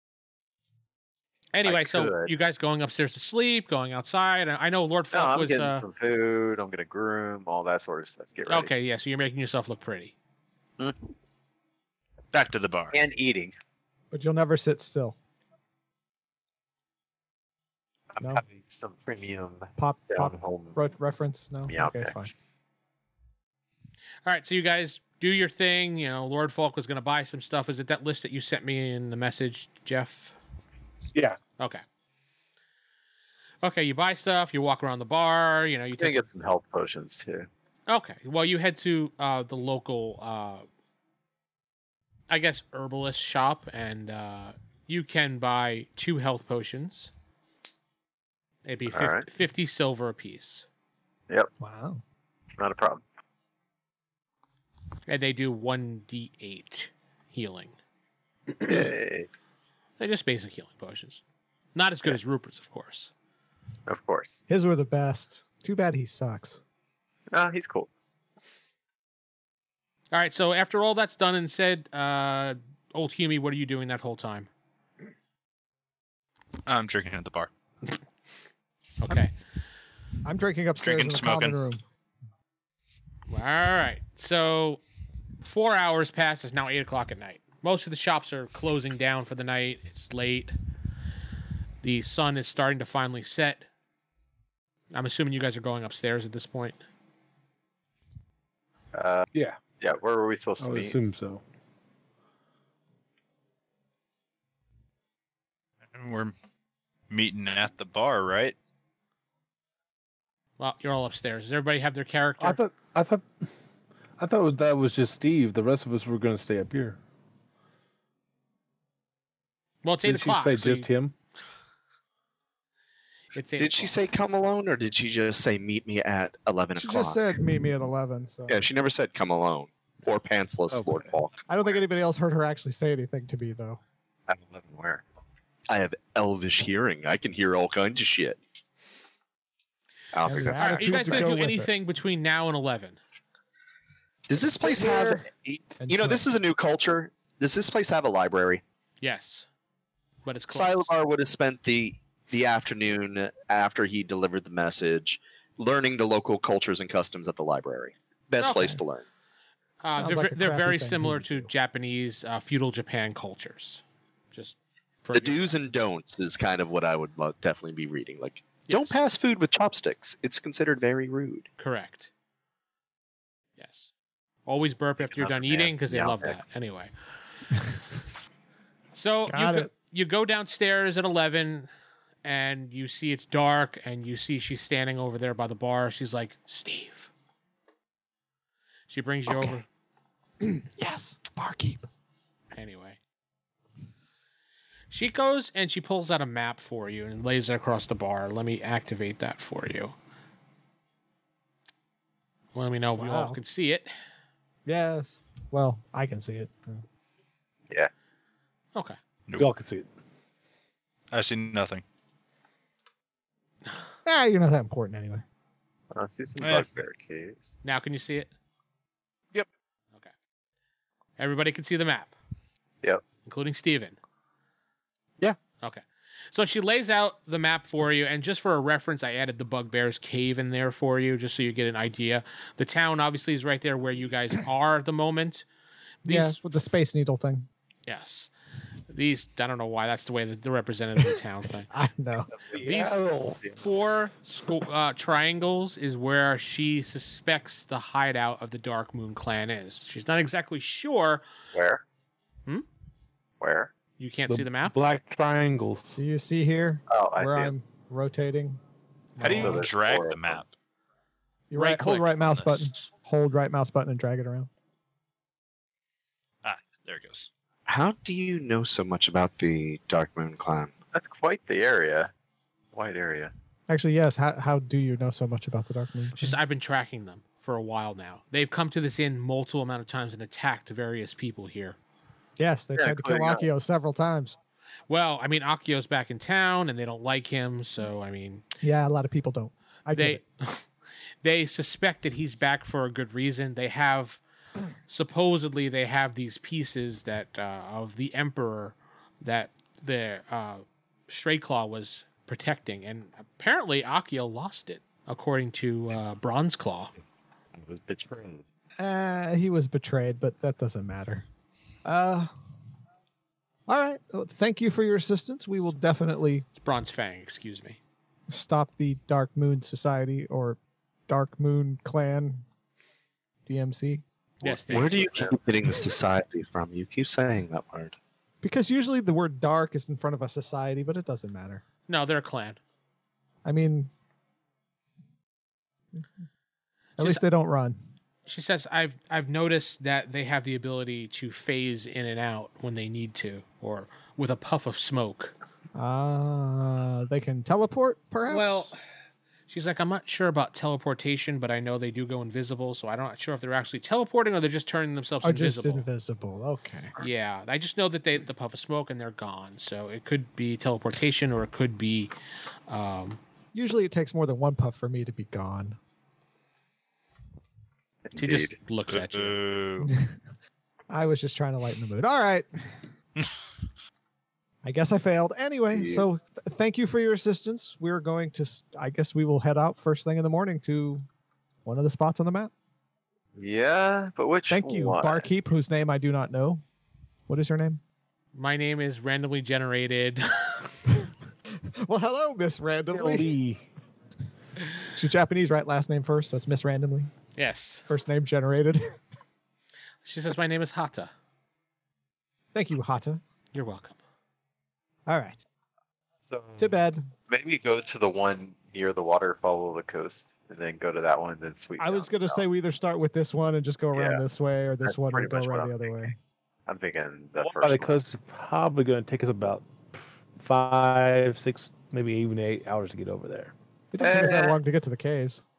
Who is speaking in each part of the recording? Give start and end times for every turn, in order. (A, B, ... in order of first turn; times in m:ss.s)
0:01.5-0:05.8 A
0:01.6-0:02.3 B
0:05.1-0:08.7 B
0:08.5-0:10.1 A
0:10.8-0:11.1 B
0:12.3-0:13.0 C
0:12.9-0:13.5 B
0:14.1-0:15.2 D
0:18.1-0:20.8 B
0:19.8-0:22.3 D
0:21.7-0:22.2 B
0:24.2-0:30.4 A
0:33.6-0:36.2 A
0:36.0-0:37.5 B
0:37.9-0:40.6 A
0:42.3-0:47.1 A
0:48.6-0:50.6 A
0:48.9-0:49.2 B
0:51.6-0:52.0 D
0:52.6-0:53.0 B
0:55.1-0:57.8 A
0:58.5-0:58.8 A
0:58.6-0:59.3 B
1:00.0-1:01.2 A
1:01.7-1:03.1 A
1:03.9-1:04.4 B
1:04.5-1:06.6 D
1:07.3-1:07.9 B
1:10.1-1:14.5 A
1:16.6-1:17.5 C
1:19.0-1:19.3 A
1:20.2-1:21.8 D
1:20.8-1:21.6 C
1:23.3-1:24.8 A
1:25.4-1:30.5 A
1:31.8-1:33.7 A
1:34.9-1:36.8 A
1:38.9-1:39.2 B
1:39.3-1:39.6 E
1:39.8-1:41.0 B
1:40.6-1:41.4 E
1:45.9-1:46.3 C
1:47.1-1:48.6 C
1:50.6-1:52.6 A
1:52.4-1:53.5 E
1:54.2-1:57.0 E
1:59.8-2:00.9 A
2:00.0-2:01.1 E
2:03.3-2:04.0 A
2:03.6-2:07.2 F
2:06.8-2:08.6 D
2:08.5-2:11.4 F
2:10.7-2:11.1 E
2:11.5-2:13.8 D
2:14.3-2:15.0 B
2:15.7-2:18.4 F
2:20.1-2:21.3 F
2:20.2-2:21.7 D
2:20.6-2:23.0 A
2:24.3-2:28.6 F
2:24.3-2:25.2 D
2:25.8-2:26.3 D
2:29.0-2:29.5 A
2:30.2-2:30.9 A
2:30.5-2:39.0 F
2:38.4-2:38.8 A
2:39.8-2:45.5 A
2:39.9-2:41.5 D
2:45.1-2:51.5 F
2:48.7-2:49.0 A
2:51.6-2:52.1 A
2:53.6-2:53.9 A
2:54.4-2:56.9 A
2:55.0-2:56.4 B
2:58.9-3:01.7 A
2:59.3-2:59.7 D
3:02.2-3:07.1 A
3:08.9-3:09.6 A
3:09.3-3:09.6 D
3:10.4-3:11.9 D
3:12.5-3:13.0 A
3:14.9-3:19.9 A
3:22.5-3:23.9 A
3:23.0-3:23.4 D
3:24.6-3:26.8 D
3:29.4-3:29.9 E
3:31.1-3:31.8 C
3:34.0-3:35.2 D
3:35.9-3:37.5 B
3:36.4-3:36.7 C
3:37.6-3:38.3 A
3:41.2-3:42.1 A
3:43.2-3:44.0 A
3:45.6-3:55.4 A
3:56.0-3:56.4 A
3:56.0-3:57.5 D
3:57.9-3:58.3 A
3:58.9-4:01.7 A
4:01.7-4:02.3 D
4:02.3-4:03.6 B
4:02.6-4:03.4 E
4:02.6-4:03.0 A
4:03.6-4:11.2 A
4:11.5-4:11.8 B
4:13.4-4:13.7 B
4:14.0-4:14.8 A
4:14.3-4:16.0 E
4:16.0-4:18.6 D
4:16.9-4:17.5 B
4:19.2-4:19.6 D
4:19.2-4:20.5 C
4:19.2-4:20.4 B
4:21.5-4:24.5 D
4:21.5-4:22.1 A
4:22.4-4:22.7 C
4:26.4-4:27.3 C
4:27.7-4:30.7 F
4:30.9-4:32.1 B
4:32.7-4:33.3 B
4:33.7-4:36.4 D
4:36.1-4:41.8 A
4:42.4-4:44.4 D
4:42.8-4:43.5 B
4:44.9-4:48.4 A
4:48.6-4:50.2 D
4:49.9-4:50.7 A
4:51.2-4:54.2 A
4:54.9-5:06.9 A
5:07.5-5:08.4 B
5:08.8-5:11.2 D
5:11.8-5:12.3 D
5:13.7-5:16.4 D
5:16.6-5:17.8 A
5:18.3-5:22.4 D
5:23.4-5:24.0 D
5:24.4-5:25.2 A
5:24.4-5:28.0 F
5:24.7-5:25.3 B
5:28.4-5:31.6 D
5:31.9-5:32.6 A
5:33.4-5:33.9 D
5:37.0-5:37.8 D
5:37.0-5:37.2 A
5:38.2-5:45.3 A
5:45.7-5:48.7 D
5:48.3-5:48.8 A
5:49.5-5:55.8 A
5:55.2-5:56.9 D
5:57.0-6:02.1 A
6:02.7-6:03.2 A
6:03.5-6:05.8 D
6:08.1-6:08.5 B
6:08.2-6:09.4 A
6:08.9-6:09.9 C
6:09.8-6:10.2 D
6:10.9-6:12.8 D
6:14.6-6:21.0 D
6:15.7-6:16.0 F
6:21.6-6:22.5 D
6:23.4-6:25.3 B
6:24.5-6:26.6 D
6:27.3-6:27.8 D
6:28.3-6:30.7 A
6:31.7-6:33.3 D
6:32.9-6:33.6 E
6:34.9-6:37.1 D
6:37.4-6:37.9 A
6:37.9-6:39.0 D
6:40.0-6:41.1 A
6:42.5-6:43.2 D
6:43.5-6:44.0 A
6:45.1-6:45.4 D
6:46.3-6:52.4 B
6:46.6-6:47.1 D
6:51.8-6:56.1 D
6:53.9-6:54.2 B
6:54.8-6:56.1 B
6:56.7-6:58.0 B
6:57.4-7:03.5 E
7:03.9-7:05.4 D
7:04.0-7:04.6 B